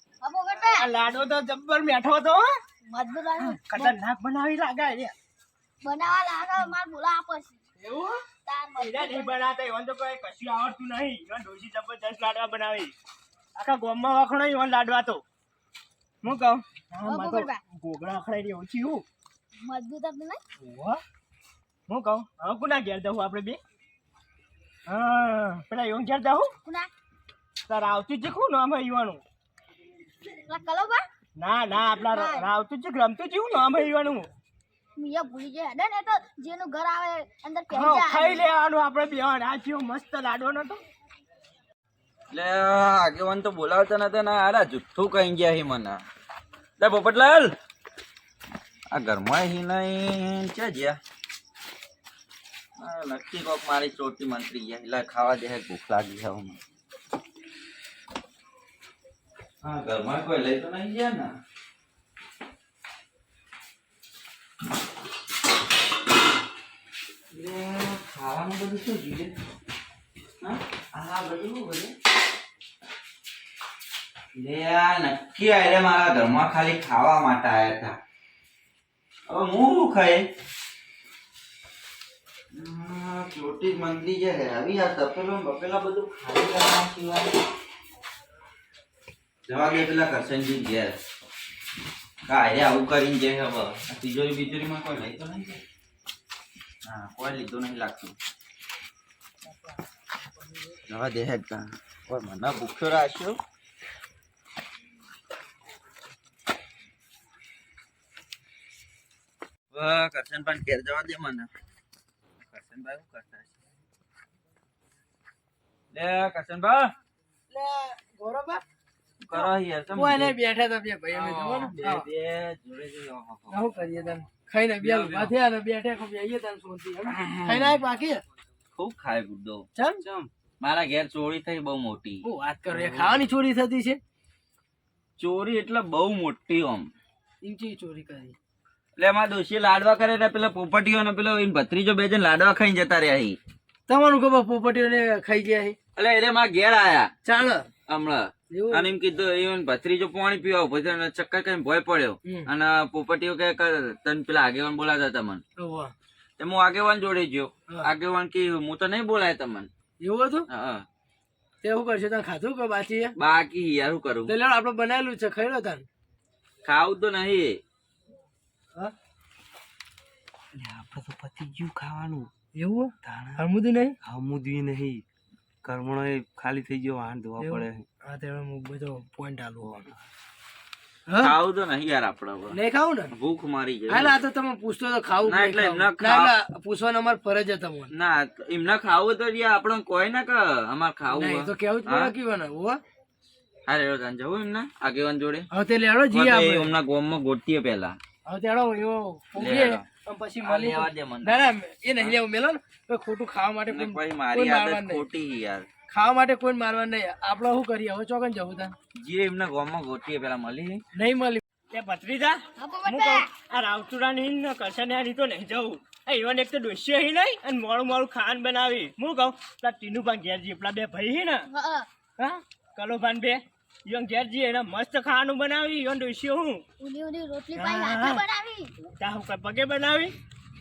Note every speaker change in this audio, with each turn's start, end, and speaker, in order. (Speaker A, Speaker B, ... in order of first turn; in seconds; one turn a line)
Speaker A: 0.2-0.8
Speaker B: 0.6-2.5
Speaker A: 2.9-3.9
Speaker B: 3.4-5.1
Speaker A: 5.8-7.6
Speaker C: 7.8-8.1
Speaker A: 8.4-9.3
Speaker B: 8.8-12.9
Speaker B: 13.6-15.2
Speaker B: 16.2-19.0
Speaker A: 17.0-17.6
Speaker A: 19.6-20.4
Speaker B: 20.6-21.0
Speaker B: 21.9-23.6
Speaker B: 24.9-26.5
Speaker A: 26.6-26.9
Speaker B: 27.7-29.2
Speaker A: 30.4-31.0
Speaker B: 31.4-34.3
Speaker A: 31.9-32.5
Speaker A: 35.0-38.4
Speaker B: 37.7-40.8
Speaker D: 42.3-46.0
Speaker D: 46.8-47.5
Speaker D: 48.9-51.0
Speaker D: 52.8-56.6
Speaker D: 59.6-61.3
Speaker D: 67.3-69.3
Speaker D: 70.4-71.9
Speaker D: 74.3-78.0
Speaker D: 79.3-80.2
Speaker D: 82.5-87.4
Speaker D: 89.5-91.0
Speaker D: 92.3-95.6
Speaker D: 96.8-98.1
Speaker D: 100.9-103.4
Speaker D: 109.7-111.5
Speaker D: 112.4-113.5
Speaker D: 115.9-116.9
Speaker C: 117.5-118.6
Speaker D: 119.2-120.3
Speaker C: 119.3-122.0
Speaker D: 121.2-123.6
Speaker E: 121.2-121.5
Speaker C: 123.5-128.2
Speaker D: 124.8-125.3
Speaker D: 127.5-127.8
Speaker D: 128.8-129.6
Speaker E: 130.0-130.3
Speaker D: 130.6-133.2
Speaker C: 132.2-134.0
Speaker D: 135.2-136.9
Speaker C: 137.4-138.3
Speaker D: 139.0-143.4
Speaker C: 143.9-145.8
Speaker D: 145.9-147.1
Speaker C: 147.2-147.7
Speaker D: 147.9-155.4
Speaker C: 148.5-148.9
Speaker C: 155.6-155.9
Speaker D: 156.4-159.7
Speaker C: 160.0-160.4
Speaker D: 160.5-160.8
Speaker C: 161.6-163.1
Speaker D: 163.2-164.3
Speaker C: 164.3-165.8
Speaker D: 166.6-167.6
Speaker E: 170.6-172.3
Speaker C: 172.6-173.9
Speaker E: 173.0-173.4
Speaker E: 174.0-175.0
Speaker E: 175.6-177.8
Speaker C: 177.4-179.8
Speaker D: 181.2-182.6
Speaker C: 182.5-183.1
Speaker D: 183.1-184.1
Speaker C: 183.9-187.9
Speaker D: 185.2-186.3
Speaker D: 187.9-192.1
Speaker C: 191.1-192.8
Speaker D: 193.7-195.5
Speaker C: 195.5-196.7
Speaker D: 196.1-198.0
Speaker C: 198.2-205.0
Speaker D: 199.4-199.8
Speaker D: 200.4-201.4
Speaker D: 203.7-205.7
Speaker C: 205.9-208.7
Speaker D: 209.0-210.8
Speaker C: 210.9-211.4
Speaker B: 211.7-221.5
Speaker A: 212.6-213.2
Speaker A: 221.5-221.9
Speaker B: 222.2-226.6
Speaker A: 226.8-228.7
Speaker B: 227.5-228.2
Speaker B: 228.8-230.1